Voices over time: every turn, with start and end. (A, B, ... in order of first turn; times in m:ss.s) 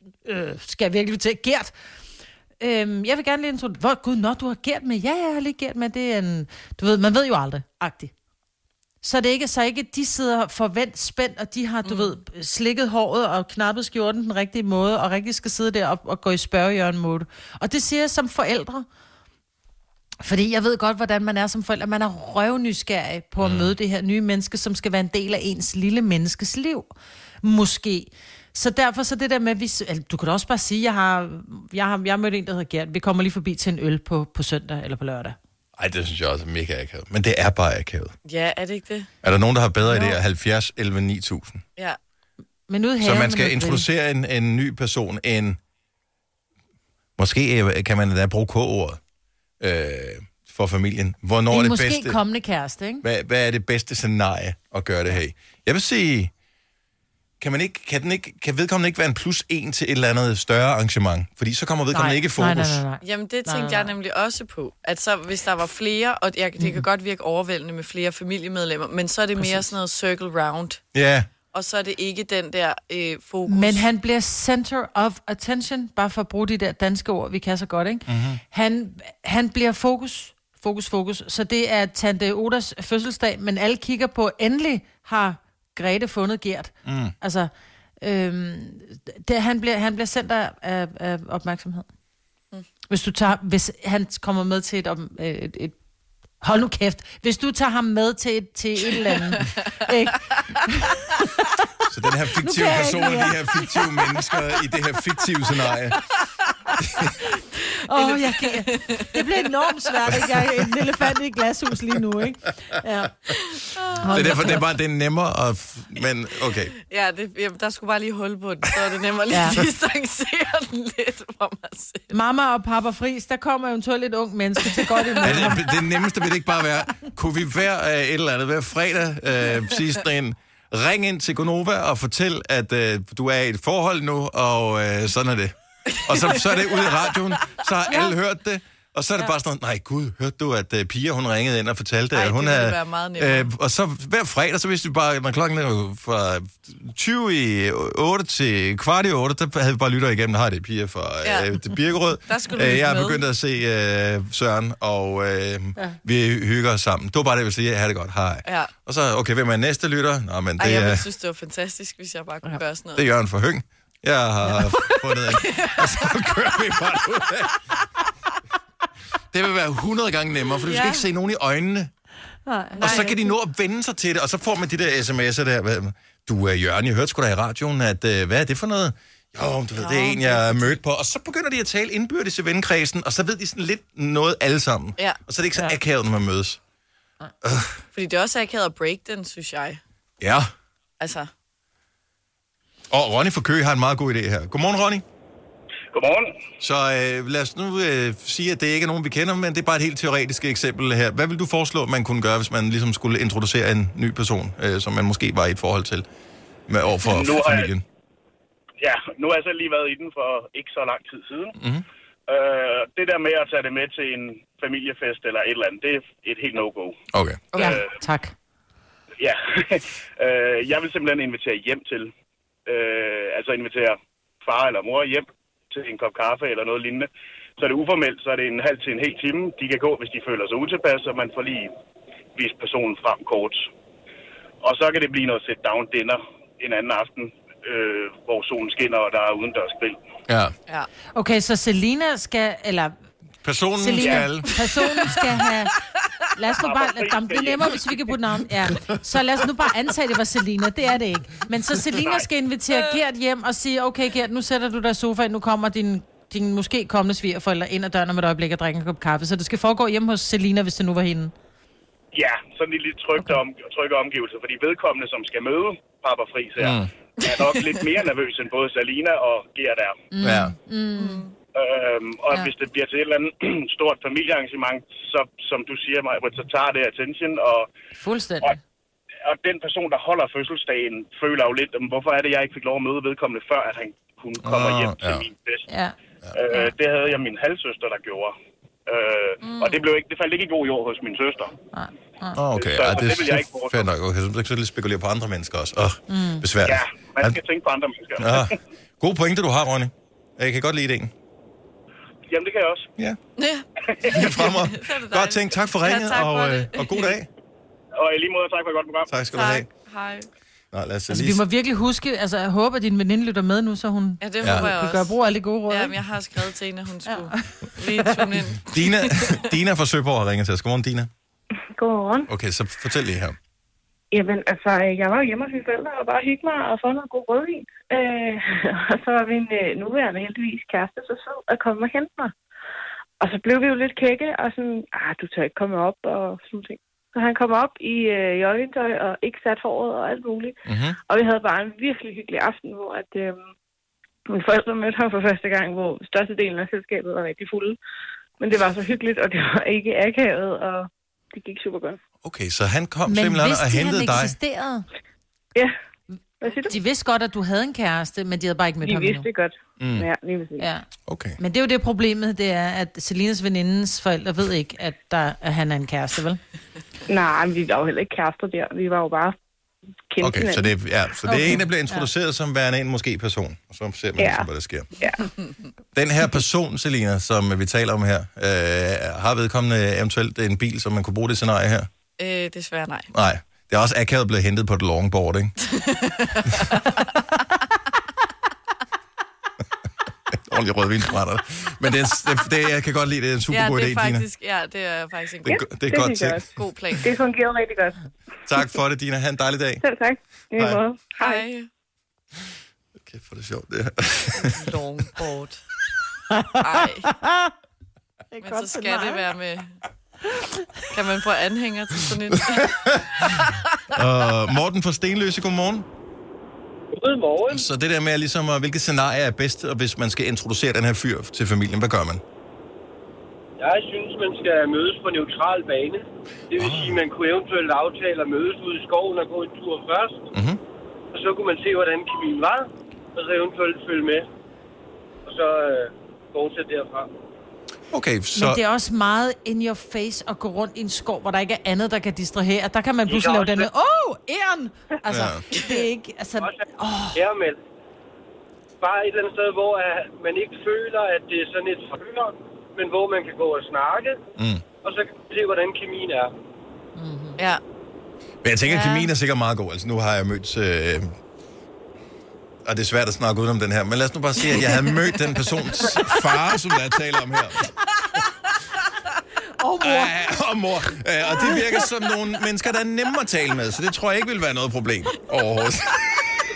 0:00.2-0:01.7 A
0:02.6-0:08.1 A
0:09.0-0:18.9 A
0:11.8-0:12.2 B
0:20.2-0:26.9 A
0:23.4-0:23.7 C
0:27.4-0:35.4 A
0:35.8-0:38.2 C
0:38.2-0:39.1 B
0:39.2-0:41.6 C
0:39.8-0:40.2 A
0:42.7-0:43.8 A
0:43.0-0:45.6 C
0:47.2-0:49.0 C
0:49.6-0:52.2 C
0:51.5-0:53.0 A
0:53.0-0:56.3 C
0:57.4-1:02.8 C
1:01.9-1:03.9 A
1:03.0-1:10.8 B
1:10.9-1:11.3 C
1:11.5-1:13.9 B
1:13.5-1:27.5 A
1:18.1-1:18.4 C
1:26.8-1:27.1 C
1:28.0-1:31.9 A
1:32.9-1:35.8 A
1:36.4-1:41.4 A
1:39.0-1:39.6 B
1:41.9-1:46.0 C
1:42.4-1:43.8 A
1:47.9-1:53.1 A
1:47.9-1:49.2 B
1:53.6-1:54.6 B
1:54.0-1:54.6 A
1:54.1-1:56.7 C
1:56.9-2:02.1 B
1:59.3-1:59.6 A
2:02.1-2:05.6 A
2:04.8-2:05.6 B
2:05.2-2:41.0 C
2:15.9-2:17.0 B
2:22.1-2:23.5 B
2:31.2-2:31.6 B
2:32.3-2:33.2 B
2:38.5-2:38.7 B
2:40.6-2:43.1 B
2:43.0-2:47.5 C
2:45.3-2:46.2 B
2:49.3-2:51.9 C
2:50.7-2:51.1 B
2:52.5-2:53.3 A
2:52.8-2:53.2 B
2:52.8-3:06.6 C
2:59.8-3:00.8 B
3:07.4-3:07.8 C
3:07.9-3:09.8 B
3:10.2-3:10.5 C
3:11.0-3:11.3 B
3:12.9-3:15.0 C
3:15.9-3:16.3 D
3:16.6-3:26.1 C
3:26.7-3:27.8 C
3:27.0-3:27.7 D
3:28.8-3:31.6 D
3:31.6-3:31.8 C
3:32.3-3:37.0 D
3:37.1-3:37.4 C
3:37.6-3:38.4 A
3:37.6-3:37.9 D
3:39.2-3:42.1 D
3:42.7-3:51.7 D
3:52.4-3:53.7 D
3:54.6-4:00.0 D
4:00.3-4:00.5 C
4:01.2-4:03.0 A
4:03.4-4:04.5 C
4:03.8-4:05.7 A
4:06.4-4:21.3 A
4:06.6-4:07.9 D
4:12.0-4:12.2 D
4:22.1-4:30.0 D
4:26.6-4:26.9 C
4:30.1-4:31.2 A
4:30.2-4:30.5 C
4:31.0-4:31.3 B
4:31.6-4:37.7 D
4:38.0-4:38.6 A
4:39.3-4:45.6 D
4:44.4-4:45.3 C
4:45.7-4:45.9 A
4:46.3-4:48.4 D
4:48.9-4:51.5 D
4:49.4-4:49.8 B
4:51.7-4:52.4 A
4:52.4-4:57.4 C
4:52.6-4:53.8 D
4:56.1-4:56.5 A
4:56.6-4:58.5 D
4:58.2-5:01.1 C
5:02.3-5:02.9 D
5:03.4-5:07.1 B
5:04.0-5:07.3 C
5:08.0-5:09.1 D
5:09.1-5:09.7 C
5:09.3-5:10.3 B
5:10.7-5:11.4 C
5:11.1-5:16.0 A
5:14.2-5:15.2 B
5:14.4-5:14.7 C
5:15.7-5:19.0 B
5:17.1-5:18.2 A
5:18.7-5:21.1 C
5:21.7-5:22.3 E
5:22.3-5:23.4 C
5:24.1-5:32.3 E
5:33.2-5:40.6 E
5:40.7-5:41.0 C
5:41.1-5:43.5 E
5:44.3-5:47.8 E
5:48.4-5:52.0 E
5:52.2-5:54.4 C
5:53.1-5:54.9 A
5:56.4-5:56.8 E
5:56.5-5:59.3 A
5:58.8-6:00.7 E
5:59.8-6:00.1 C
6:00.6-6:00.9 A
6:01.1-6:01.4 C
6:01.4-6:06.4 A
6:07.1-6:09.4 E
6:10.1-6:10.7 E
6:10.2-6:14.9 C
6:11.2-6:12.1 A
6:14.2-6:14.5 E
6:16.0-6:21.9 C
6:22.2-6:23.1 B
6:23.1-6:25.6 C
6:25.7-6:27.0 B
6:30.3-6:34.3 C
6:33.5-6:35.6 B
6:35.4-6:36.4 C
6:35.9-6:36.4 E
6:36.5-6:37.1 B
6:37.0-6:38.0 E
6:38.5-6:39.8 C
6:39.8-6:41.4 E
6:41.2-6:41.7 B
6:43.0-6:44.7 C
6:44.4-6:45.6 B
6:46.3-6:47.5 A
6:46.6-6:47.1 B
6:48.3-6:49.2 A
6:48.4-6:49.8 B
6:50.9-6:53.6 B
6:52.5-6:53.0 C
6:53.9-6:55.9 C
6:56.9-6:57.6 F
6:57.5-7:02.2 C
7:03.6-7:10.3 F
7:06.6-7:07.0 C
7:10.3-7:10.6 C
7:11.1-7:14.3 F
7:15.3-7:17.1 F
7:17.9-7:18.6 C
7:18.4-7:27.2 A
7:23.1-7:23.7 F
7:25.1-7:25.4 C
7:25.6-7:25.8 B
7:26.4-7:27.6 F
7:28.8-7:34.2 F
7:34.4-7:34.6 C
7:34.8-7:36.3 F
7:37.0-7:37.4 A
7:38.4-7:41.2 C
7:38.7-7:39.1 B
7:42.7-7:47.7 C
7:49.6-7:50.1 A
7:49.8-7:56.3 C